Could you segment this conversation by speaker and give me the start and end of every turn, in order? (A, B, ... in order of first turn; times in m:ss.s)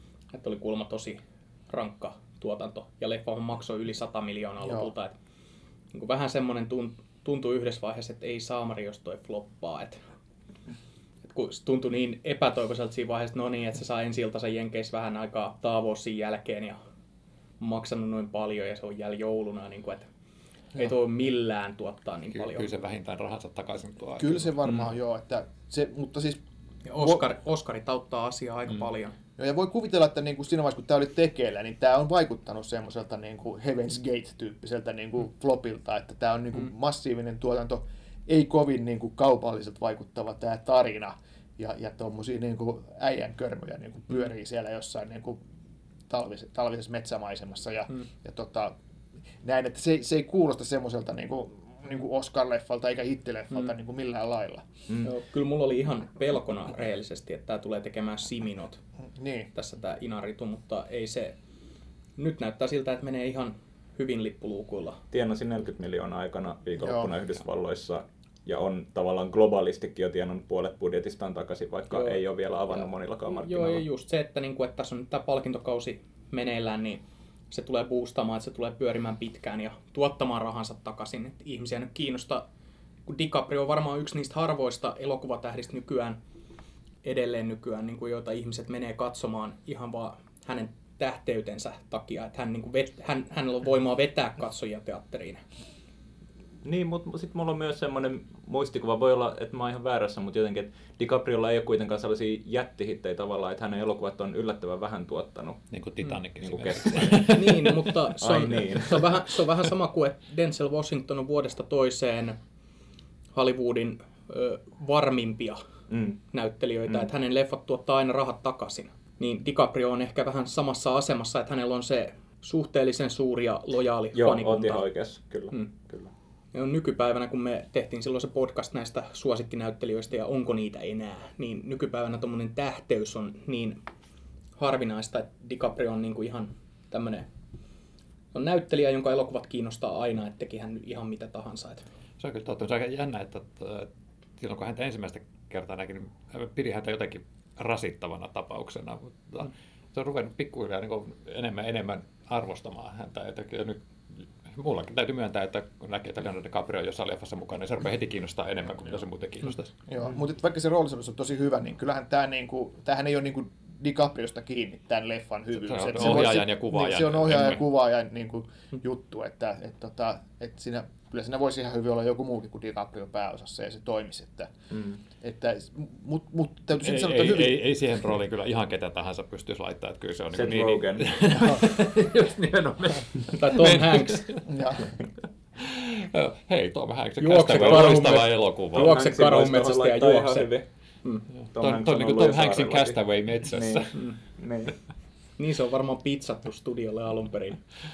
0:00.3-0:05.1 A
0:04.6-0:04.9 B
0:05.9-0:10.0 A
0:11.3-0:16.8 A
0:17.6-0:20.1 A
0:20.7-0:22.7 A
0:22.3-0:24.7 C
0:24.2-0:26.4 B
0:26.8-0:29.2 A
0:27.0-0:27.2 B
0:29.4-0:45.4 B
0:46.1-0:48.7 B
0:49.4-0:54.6 B
0:55.0-0:58.8 A
0:59.1-0:59.5 B
0:59.5-1:01.4 A
1:02.2-1:05.0 A
1:05.1-1:13.8 D
1:06.8-1:07.1 B
1:11.9-1:22.4 A
1:23.0-1:26.2 A
1:27.0-1:35.4 A
1:36.6-1:45.7 D
1:45.7-1:47.9 C
1:46.4-1:47.3 D
1:47.3-1:52.4 A
1:48.2-1:49.1 D
1:53.3-1:55.6 A
1:55.9-1:56.2 D
1:56.3-2:04.9 A
2:04.1-2:06.1 D
2:06.5-2:13.8 A
2:14.6-2:17.3 A
2:18.3-2:21.8 A
2:22.2-2:33.8 C
2:34.4-2:39.7 C
2:39.9-2:54.5 B
2:45.6-2:47.7 C
2:54.7-2:55.0 D
2:55.2-2:57.6 B
2:56.8-3:04.4 C
3:00.3-3:01.1 D
3:03.3-3:04.3 A
3:04.5-3:04.9 B
3:05.6-3:08.9 C
3:07.2-3:11.2 A
3:07.5-3:08.0 D
3:08.7-3:10.6 D
3:11.4-3:13.9 C
3:11.5-3:14.7 D
3:15.4-3:17.6 A